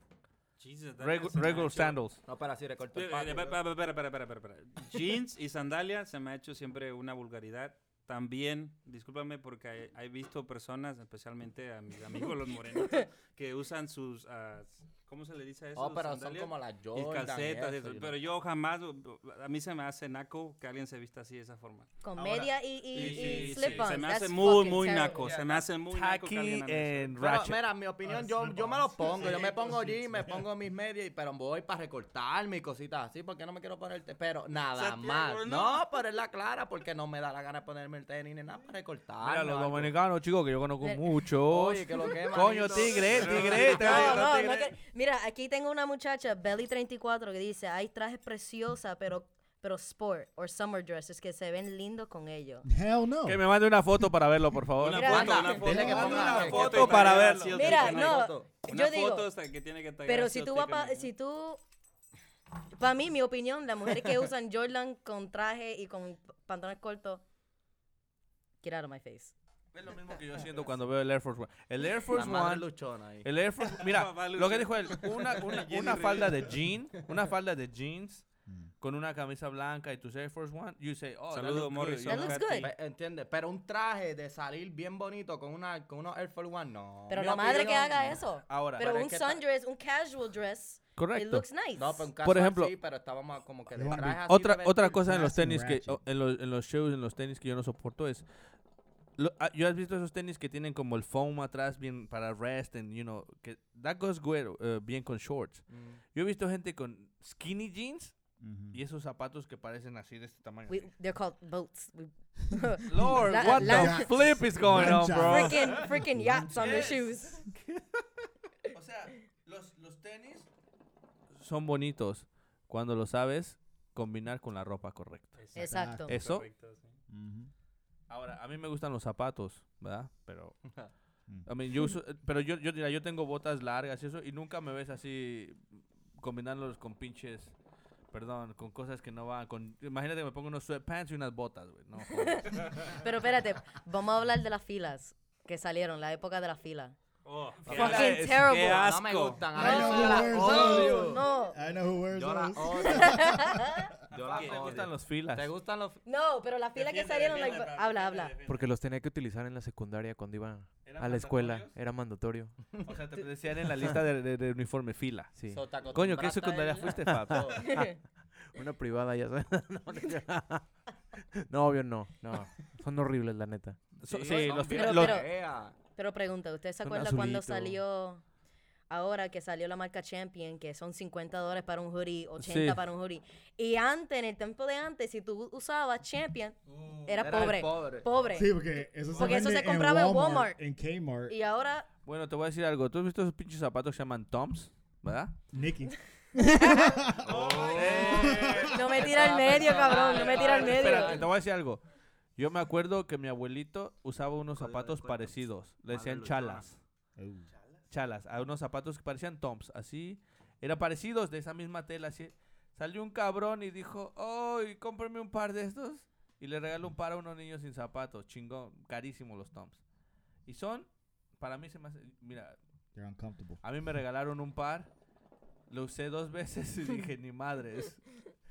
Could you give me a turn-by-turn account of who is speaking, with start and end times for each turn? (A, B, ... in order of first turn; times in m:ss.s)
0:00.6-0:02.0 A
0:01.0-0:02.2 B
0:02.2-0:03.6 C
0:02.9-0:22.0 A
0:15.8-0:18.2 C
0:22.0-0:25.3 D
0:22.9-0:27.1 A
0:22.9-0:24.0 B
0:24.7-0:27.7 B
0:27.2-0:40.0 C
0:28.0-0:30.5 E
0:34.7-0:35.8 A
0:39.2-0:44.6 B
0:40.8-0:41.1 D
0:41.5-0:44.2 C
0:42.7-0:44.2 A
0:43.7-0:52.7 D
0:52.6-0:53.5 E
0:53.2-0:58.0 B
0:54.8-1:01.1 A
0:54.9-0:55.7 D
0:55.0-0:58.5 C
0:55.7-0:56.3 E
0:57.5-0:59.3 D
1:00.0-1:01.6 D
1:02.7-1:07.2 D
1:08.6-1:09.3 D
1:09.7-1:22.6 B
1:12.1-1:13.3 C
1:13.7-1:16.5 A
1:15.6-1:16.2 C
1:18.4-1:18.7 E
1:21.3-1:22.7 A
1:22.0-1:22.7 D
1:22.6-1:29.4 C
1:27.1-1:32.1 D
1:27.4-1:28.8 B
1:31.0-1:31.6 B
1:31.7-1:35.0 C
1:32.2-1:32.7 B
1:33.7-1:34.2 E
1:33.8-1:38.3 B
1:34.9-1:36.0 E
1:39.2-1:50.9 B
1:45.7-1:46.0 C
1:48.4-1:48.8 E
1:50.7-1:54.4 D
1:52.9-1:55.9 B
1:52.9-1:56.8 E
1:55.2-1:57.4 D
1:56.5-1:57.8 B
1:58.7-2:00.5 B
2:01.3-2:06.5 B
2:05.4-2:07.0 A
2:05.6-2:06.1 D
2:05.6-2:06.2 E
2:07.1-2:07.5 E
2:08.1-2:10.6 B
2:10.6-2:10.9 C
2:11.4-2:17.6 B
2:18.1-2:23.0 B
2:22.0-2:27.0 D
2:27.2-2:30.1 A
2:27.6-2:28.9 D
2:27.6-2:28.7 B
2:28.7-2:31.2 C
2:29.5-2:33.8 E
2:29.6-2:31.6 D
2:29.7-2:31.1 B
2:32.1-2:33.4 C
2:32.7-2:33.9 D
2:34.1-2:35.5 B
2:34.1-2:36.0 C
2:34.3-2:34.9 A
2:36.0-2:38.3 D
2:36.7-2:38.6 A
2:37.3-2:37.6 B
2:38.4-2:42.6 F
2:40.8-2:47.8 B
2:42.7-2:43.2 C
2:45.3-2:45.7 F
2:45.4-2:47.7 C
2:47.6-2:48.0 D
2:48.5-2:50.8 F
2:51.5-2:53.9 F
2:54.0-2:55.3 B
2:54.0-2:55.7 C
2:54.5-2:58.2 D
2:56.9-2:57.8 F
2:58.9-3:10.7 D
3:02.4-3:02.8 B
3:06.7-3:08.1 C
3:08.1-3:11.4 E
3:11.3-3:11.9 D
3:12.0-3:15.4 B
3:15.5-3:17.4 E
3:17.3-3:18.8 A
3:17.3-3:21.3 C
3:17.7-3:18.6 B
3:18.1-3:18.6 E
3:18.7-3:21.2 D
3:19.9-3:20.5 A
3:20.1-3:26.8 B
3:24.5-3:26.7 C
3:27.2-3:27.5 E
3:27.9-3:39.8 B
3:40.4-3:42.6 B
3:42.9-3:43.6 E
3:43.6-3:44.9 B
3:45.7-3:48.3 B